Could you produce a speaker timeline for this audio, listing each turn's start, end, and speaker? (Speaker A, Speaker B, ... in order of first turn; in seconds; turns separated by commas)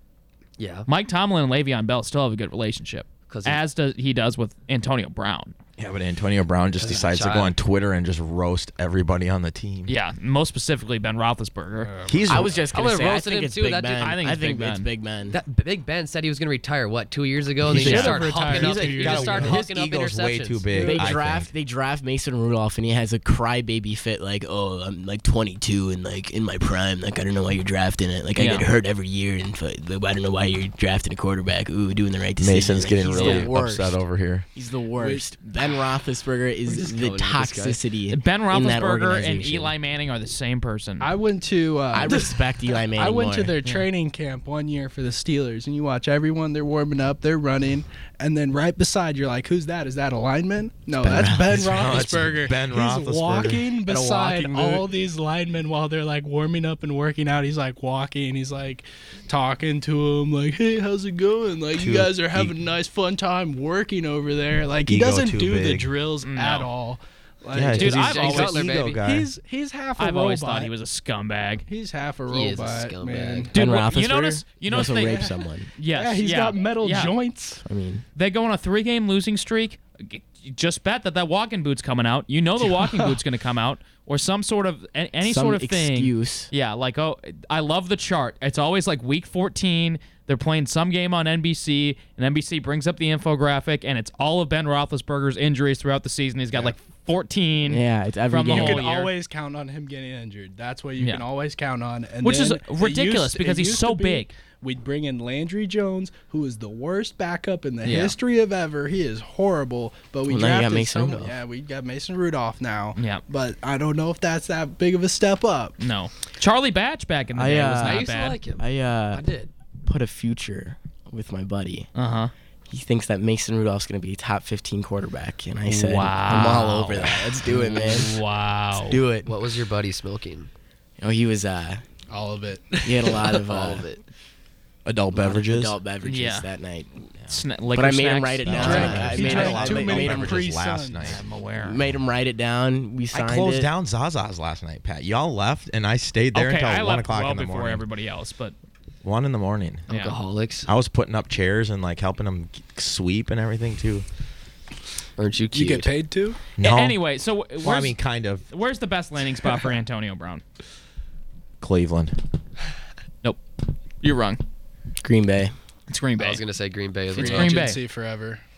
Speaker A: 0.6-0.9, Speaker B: 0.9-5.5, Speaker A: 3.3-3.6, Speaker C: 5.8-9.9, Speaker A: 6.8-7.5, Speaker B: 9.9-11.9, Speaker D: 11.8-12.4, Speaker C: 12.1-12.6, Speaker E: 12.3-15.4, Speaker A: 12.7-14.2, Speaker B: 14.0-14.9, Speaker A: 15.3-20.6, Speaker D: 17.6-19.6, Speaker C: 17.7-21.5, Speaker B: 17.8-18.1, Speaker D: 20.7-21.1, Speaker E: 20.7-34.0, Speaker B: 28.4-28.7, Speaker C: 32.4-34.5, Speaker B: 33.1-33.5, Speaker E: 34.5-39.7, Speaker D: 35.0-35.2, Speaker A: 36.7-37.8, Speaker B: 38.1-41.1, Speaker D: 41.0-70.7, Speaker E: 41.9-43.6, Speaker E: 51.0-51.6, Speaker C: 51.5-54.8, Speaker C: 61.7-62.5, Speaker C: 64.8-65.9, Speaker B: 66.2-66.7, Speaker C: 67.5-69.3, Speaker B: 67.7-68.6, Speaker A: 67.7-69.0, Speaker B: 70.0-71.6, Speaker D: 71.6-73.6, Speaker A: 72.3-73.5, Speaker B: 73.5-77.2, Speaker E: 73.5-75.7, Speaker D: 74.9-75.3, Speaker D: 75.8-77.6, Speaker E: 77.6-78.0, Speaker B: 78.2-99.1, Speaker D: 82.6-83.2, Speaker E: 85.2-86.5, Speaker E: 97.7-98.8, Speaker D: 98.4-115.7, Speaker B: 101.0-101.2, Speaker B: 102.2-104.3, Speaker B: 107.8-108.2, Speaker E: 110.3-111.4, Speaker B: 113.0-113.2, Speaker B: 115.8-118.4, Speaker E: 117.3-119.2, Speaker A: 117.8-119.5, Speaker E: 119.8-121.9, Speaker B: 121.9-122.3, Speaker E: 122.7-128.1, Speaker B: 125.7-129.0, Speaker E: 128.8-129.3, Speaker A: 129.2-130.5, Speaker E: 131.0-131.8, Speaker D: 132.1-132.9, Speaker E: 132.8-133.9, Speaker A: 133.0-134.0, Speaker C: 134.8-135.8, Speaker E: 135.1-136.9, Speaker B: 136.0-136.5, Speaker B: 137.3-139.6, Speaker E: 137.7-140.4, Speaker C: 138.4-141.2, Speaker D: 138.5-141.2, Speaker B: 141.0-141.8, Speaker E: 141.6-143.7, Speaker C: 143.1-147.8, Speaker B: 146.3-148.5, Speaker C: 149.0-149.8, Speaker A: 149.9-150.7, Speaker B: 149.9-150.2, Speaker C: 150.7-154.0, Speaker A: 155.2-155.9, Speaker D: 155.5-156.4, Speaker C: 156.6-157.0, Speaker B: 156.6-160.4, Speaker C: 157.6-158.4, Speaker C: 161.6-162.2, Speaker B: 164.0-164.4, Speaker E: 165.0-165.5, Speaker B: 165.9-166.4, Speaker A: 166.2-167.6, Speaker D: 167.1-168.4, Speaker B: 167.1-167.8